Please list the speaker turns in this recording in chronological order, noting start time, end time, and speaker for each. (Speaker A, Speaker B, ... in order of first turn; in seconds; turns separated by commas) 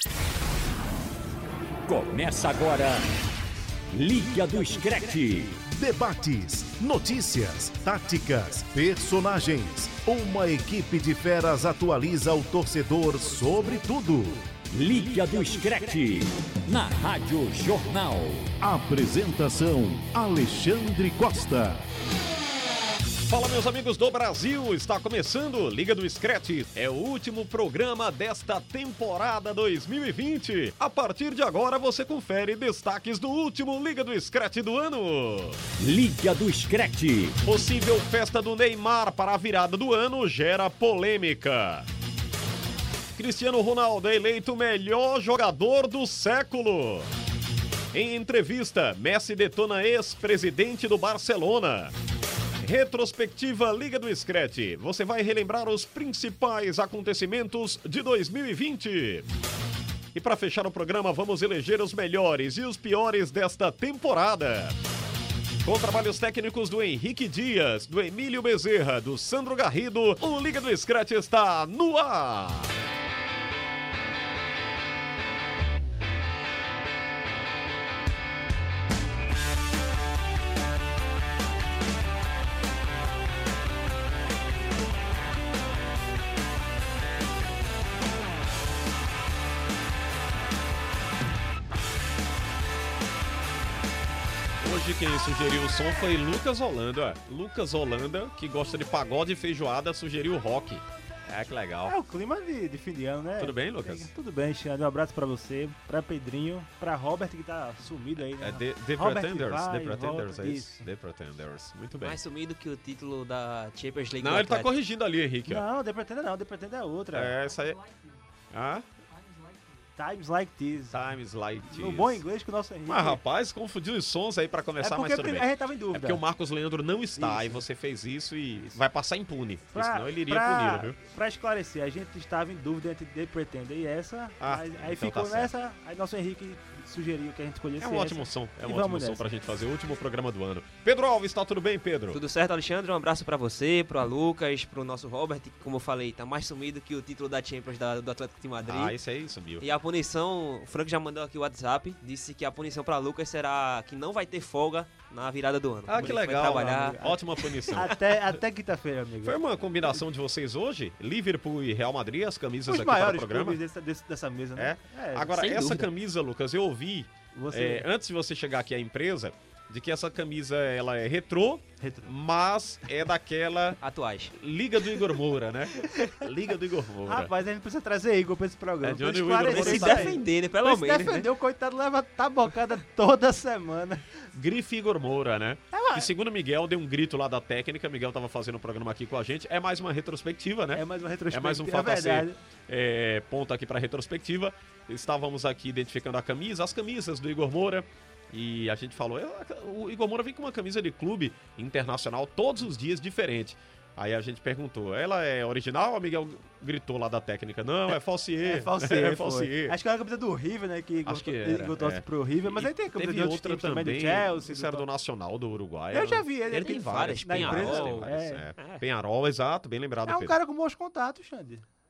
Speaker A: 1.9-3.0, Speaker A: 3.9-5.6, Speaker B: 5.6-14.5, Speaker A: 14.7-18.5, Speaker B: 18.6-21.8, Speaker C: 23.2-35.6, Speaker A: 35.8-37.4, Speaker C: 37.4-41.9, Speaker C: 43.1-47.1, Speaker C: 47.9-51.9, Speaker C: 52.6-59.3, Speaker C: 60.1-64.8, Speaker C: 65.6-72.8, Speaker C: 94.6-101.9, Speaker D: 101.8-110.8, Speaker C: 103.4-104.1, Speaker C: 108.4-112.2, Speaker E: 112.0-114.7, Speaker C: 114.2-115.7, Speaker D: 115.4-117.4, Speaker C: 117.1-117.8, Speaker C: 118.5-118.9, Speaker D: 120.0-121.0, Speaker C: 120.9-122.2, Speaker D: 121.7-123.2, Speaker C: 122.8-131.0, Speaker D: 124.8-126.2, Speaker D: 127.2-127.6, Speaker D: 129.7-139.2, Speaker C: 134.4-135.5, Speaker C: 137.8-142.2, Speaker E: 142.1-148.9, Speaker C: 148.6-149.7, Speaker E: 149.6-157.9, Speaker C: 155.9-158.3, Speaker D: 156.0-159.4, Speaker C: 159.2-163.6, Speaker D: 162.7-165.8, Speaker C: 164.6-173.8, Speaker E: 165.4-165.8, Speaker D: 167.3-167.9, Speaker D: 171.8-172.1, Speaker E: 173.8-174.3, Speaker C: 174.3-177.3, Speaker D: 177.1-184.2, Speaker C: 178.8-180.2, Speaker E: 179.5-181.3, Speaker C: 184.3-209.8, Speaker D: 185.7-186.1, Speaker D: 190.7-192.4, Speaker D: 208.4-214.9, Speaker C: 211.0-220.3, Speaker D: 215.9-218.4, Speaker E: 216.5-218.8, Speaker D: 220.1-221.6